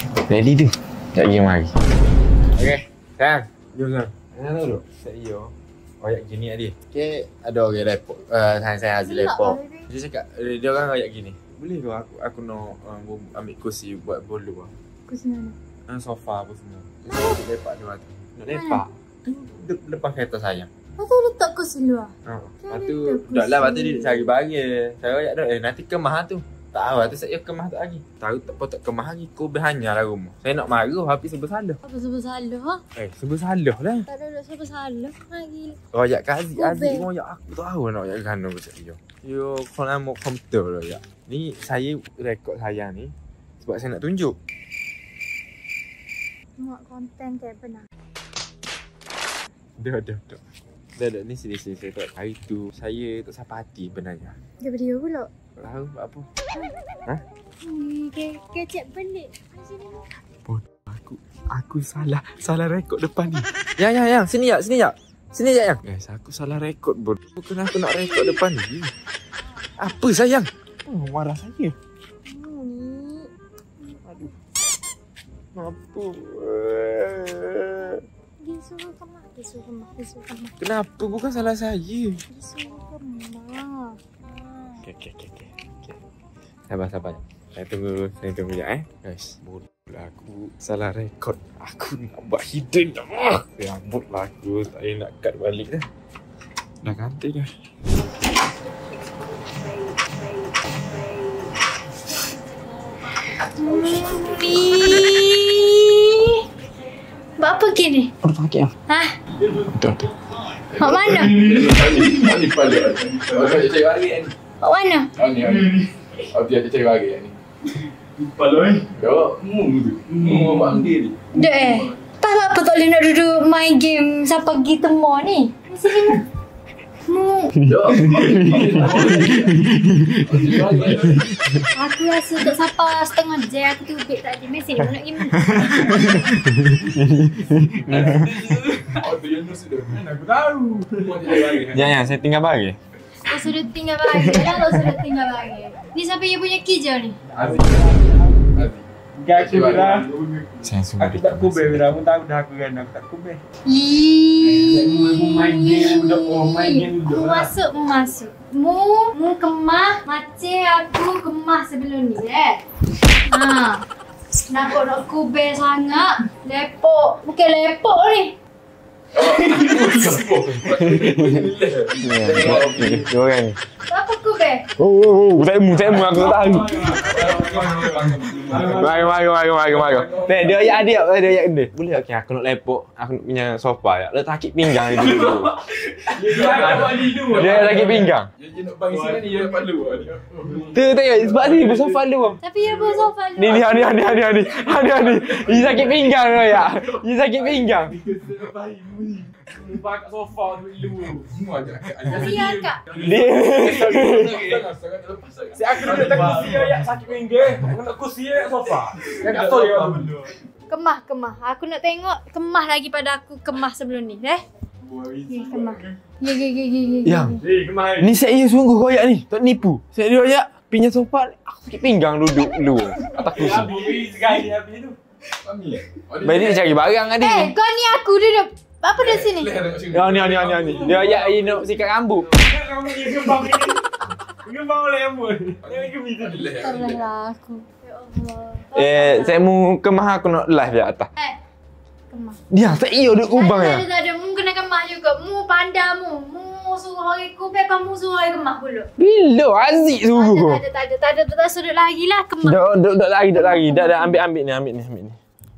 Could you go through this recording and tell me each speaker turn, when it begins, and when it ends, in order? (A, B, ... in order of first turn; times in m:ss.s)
0:00.2-0:01.8 A
0:02.5-0:14.7 A
0:09.0-0:09.8 B
0:15.1-0:15.5 B
0:15.9-0:20.7 A
0:17.1-0:17.4 B
0:18.5-0:18.8 B
0:21.0-0:22.1 B
0:22.2-0:31.8 A
0:22.6-0:24.3 B
0:31.8-0:32.8 B
0:33.0-0:34.0 A
0:34.1-0:35.8 B
0:35.9-0:44.4 A
0:36.6-0:37.1 B
0:46.6-0:47.8 B
0:49.8-0:50.4 A
0:51.0-0:54.4 A
0:54.6-0:55.3 B
0:55.6-0:56.3 A
0:57.6-1:00.0 B
1:00.4-1:08.9 A
1:09.8-1:11.8 A
1:12.2-1:13.3 B
1:14.0-1:14.3 A
1:15.5-1:18.0 A
1:18.4-1:20.5 B
1:20.6-1:22.2 A
1:22.3-1:24.8 B
1:24.8-1:26.0 A
1:26.7-1:35.9 A
1:36.8-1:37.5 A
1:43.6-1:46.4 B
1:47.4-1:48.1 B
1:48.2-1:48.7 A
1:48.9-1:49.1 B
1:50.7-1:54.3 C
1:50.8-1:51.4 B
1:54.6-1:55.1 B
1:55.2-1:57.4 C
1:58.4-1:58.8 D
1:59.0-2:01.9 C
2:01.3-2:06.2 B
2:07.1-2:07.5 B
2:07.5-2:10.1 A
2:07.6-2:11.3 C
2:11.7-2:16.1 B
2:15.3-2:18.3 A
2:17.8-2:19.0 D
2:18.9-2:20.0 C
2:19.9-2:21.2 D
2:21.0-2:22.0 C
2:21.7-2:22.8 A
2:23.2-2:27.2 B
2:24.1-2:24.9 A
2:27.3-2:28.6 D
2:27.3-2:28.0 C
2:28.5-2:30.4 C
2:29.2-2:33.4 D
2:30.6-2:32.0 A
2:33.6-2:42.6 B
2:34.4-2:37.5 D
2:43.3-2:43.8 B
2:44.4-2:48.3 B
2:49.1-2:53.1 C
2:50.7-2:51.5 A
2:52.0-2:53.6 A
2:53.9-2:54.6 B
2:54.8-2:57.1 A
2:55.9-2:59.1 C
2:56.4-2:59.0 D
2:58.5-3:05.6 A
2:59.6-3:00.7 C
3:06.0-3:10.7 C
3:06.1-3:08.0 D
3:06.4-3:08.3 A
3:08.9-3:09.7 D
3:10.5-3:12.0 D
3:10.7-3:12.4 A
3:12.4-3:14.2 B
3:13.4-3:18.0 A
3:14.9-3:16.8 C
3:17.8-3:21.2 D
3:21.2-3:27.6 C
3:22.1-3:22.8 B
3:22.2-3:24.6 D
3:22.9-3:24.5 A
3:25.6-3:30.3 D
3:29.0-3:30.3 C
3:30.7-3:34.4 B
3:34.8-3:35.9 D
3:35.3-3:37.4 B
3:37.0-3:37.4 A
3:37.4-3:38.1 D
3:38.0-3:43.7 A
3:43.1-3:43.9 C
3:43.2-3:45.0 D
3:45.4-3:46.7 C
3:46.2-3:47.5 A
3:47.2-3:49.6 B
3:49.0-3:51.2 C
3:49.9-3:52.3 A
3:50.7-3:51.7 D
3:52.2-3:53.8 D
3:54.4-3:56.6 D
3:55.6-3:57.0 C
3:56.5-3:59.5 B
3:58.7-4:01.1 A
4:02.1-4:02.4 B
4:02.5-4:03.8 A
4:03.3-4:08.9 B
4:09.0-4:10.6 A
4:10.0-4:12.7 B
4:12.4-4:15.2 A
4:13.3-4:14.2 B